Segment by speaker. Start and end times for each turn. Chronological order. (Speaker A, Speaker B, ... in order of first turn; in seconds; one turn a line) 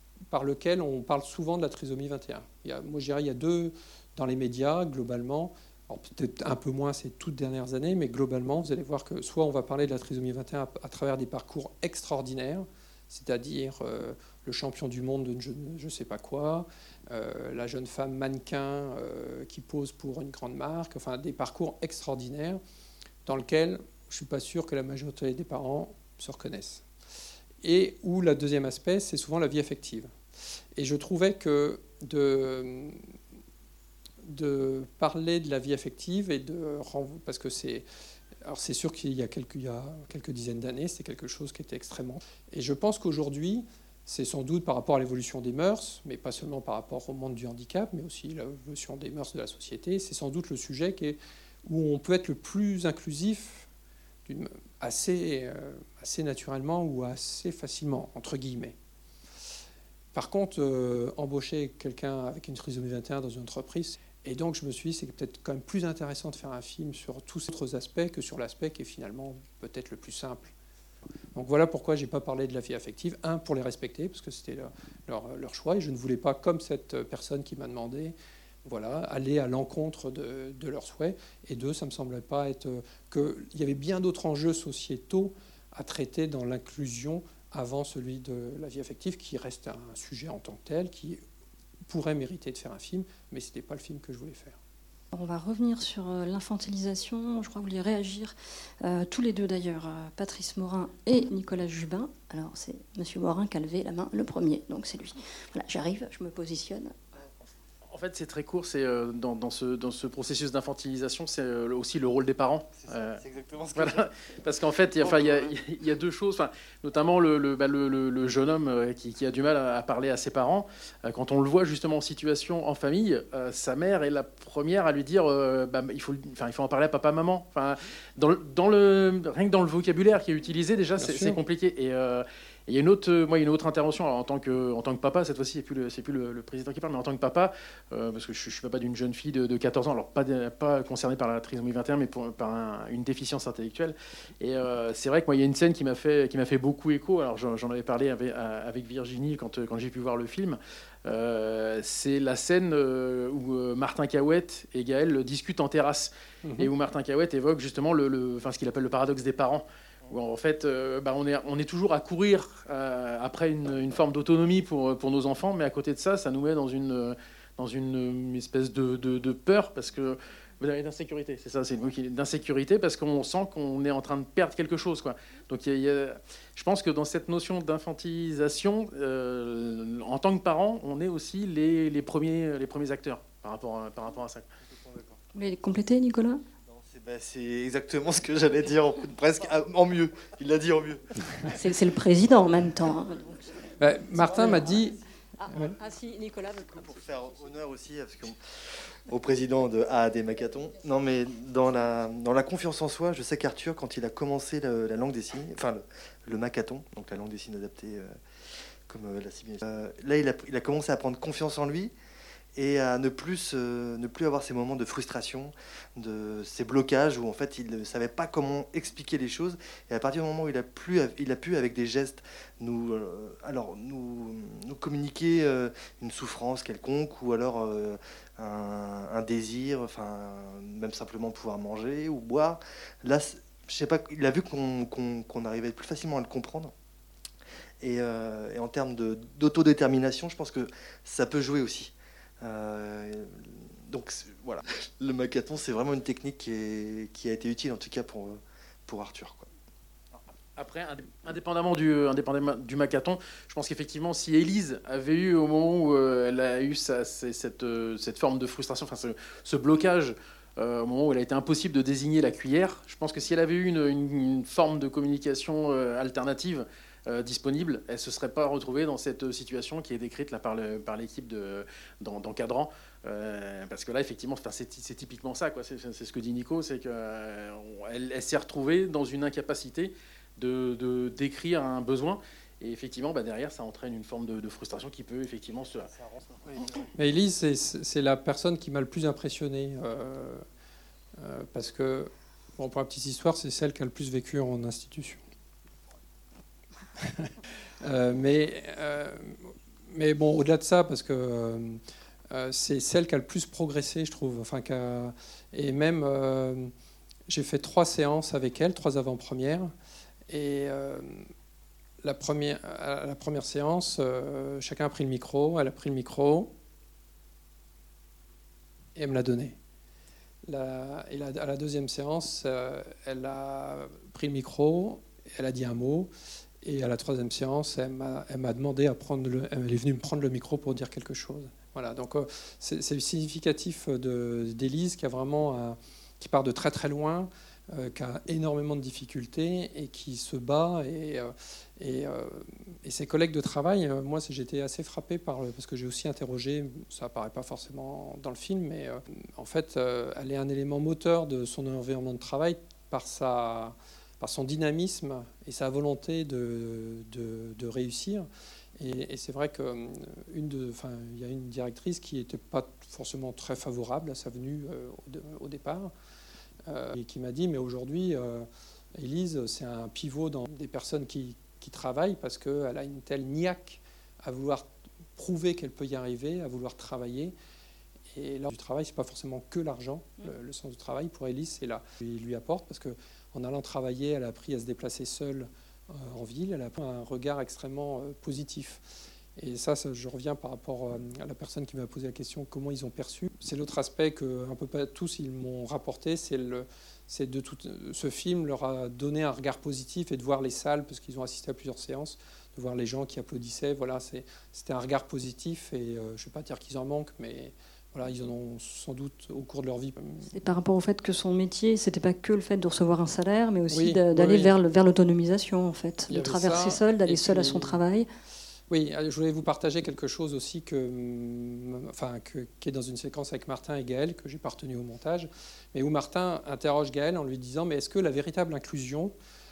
Speaker A: 0.3-22.6
Speaker A: 23.3-26.8
Speaker A: 27.6-30.1
Speaker A: 30.8-33.0
Speaker A: 34.2-37.9
Speaker A: 38.5-53.7
Speaker A: 54.3-58.8
Speaker A: 60.1-70.5
Speaker A: 71.3-91.2
Speaker A: 91.9-94.6
Speaker B: 95.1-107.0
Speaker C: 107.9-113.2
Speaker D: 112.8-114.1
Speaker C: 113.8-184.5
Speaker A: 131.0-131.4
Speaker A: 156.4-156.7
Speaker D: 184.7-185.2
Speaker B: 185.3-186.4
Speaker D: 186.7-191.1
Speaker B: 191.5-193.4
Speaker A: 193.8-195.0
Speaker B: 194.4-194.7
Speaker B: 195.8-196.5
Speaker D: 196.6-208.1
Speaker D: 208.9-211.9
Speaker D: 212.6-236.7
Speaker D: 237.8-249.5
Speaker C: 250.6-285.9
Speaker A: 286.9-290.4
Speaker A: 291.2-295.2
Speaker A: 297.0-297.3
Speaker A: 297.8-306.7
Speaker A: 307.3-309.7
Speaker A: 310.3-311.3
Speaker A: 312.0-316.5
Speaker A: 319.0-319.6
Speaker A: 320.5-326.1
Speaker A: 326.6-358.3
Speaker A: 358.8-365.9
Speaker A: 366.7-377.3
Speaker A: 378.1-388.8
Speaker A: 389.4-410.3
Speaker B: 410.3-418.1
Speaker A: 413.7-414.6
Speaker A: 416.1-417.8
Speaker A: 418.7-429.1